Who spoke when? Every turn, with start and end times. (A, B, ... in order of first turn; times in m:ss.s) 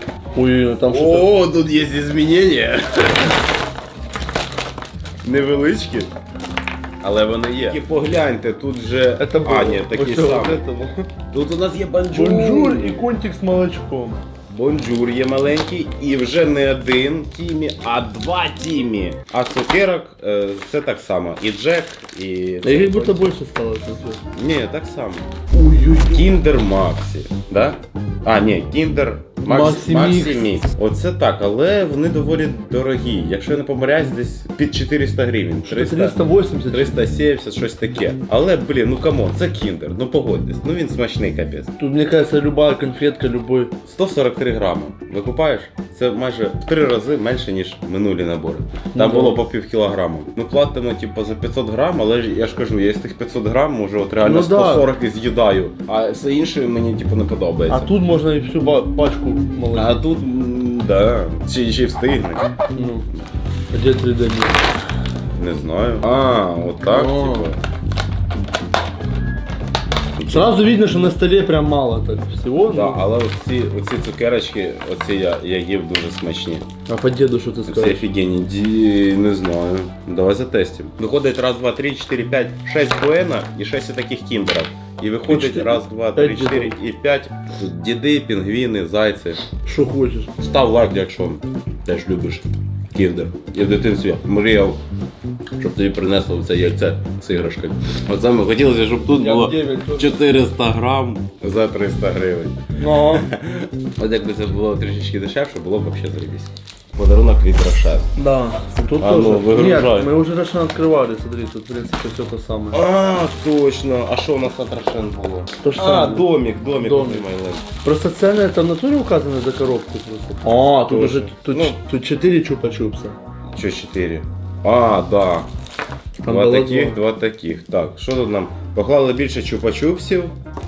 0:00.3-0:01.3 A
0:00.8-0:03.3 B
0:05.2-0:06.1 B
0:07.0-0:10.6 B
0:09.2-0:11.0 A
0:11.3-0:13.1 B
0:12.1-0:14.2 A
0:14.5-0:23.3 B
0:22.6-0:24.2 A
0:24.3-0:25.3 B
0:25.5-0:26.3 A
0:26.0-0:36.2 B
0:29.4-0:30.5 A
0:35.6-0:36.9 A
0:36.7-0:41.7 B
0:41.8-0:43.7 A
0:43.8-0:57.9 B
0:48.9-0:49.4 A
0:54.2-0:54.9 A
0:57.7-1:00.0 A
0:59.7-1:02.5 B
1:02.7-1:03.0 A
1:03.7-1:04.6 A
1:05.4-1:07.6 B
1:06.8-1:07.5 A
1:10.2-1:10.5 B
1:10.3-1:13.0 A
1:12.6-1:16.6 B
1:16.9-1:18.0 A
1:17.6-1:29.4 B
1:25.3-1:26.8 A
1:29.6-1:30.3 A
1:30.4-1:34.8 B
1:35.6-1:48.1 B
1:39.2-1:40.2 A
1:42.8-1:43.3 A
1:48.2-1:52.8 A
1:49.0-1:50.1 B
1:52.7-1:57.6 B
1:55.6-1:57.3 A
1:57.8-2:03.2 A
2:00.8-2:01.8 B
2:03.6-2:05.5 B
2:06.2-2:07.0 A
2:06.3-2:10.3 B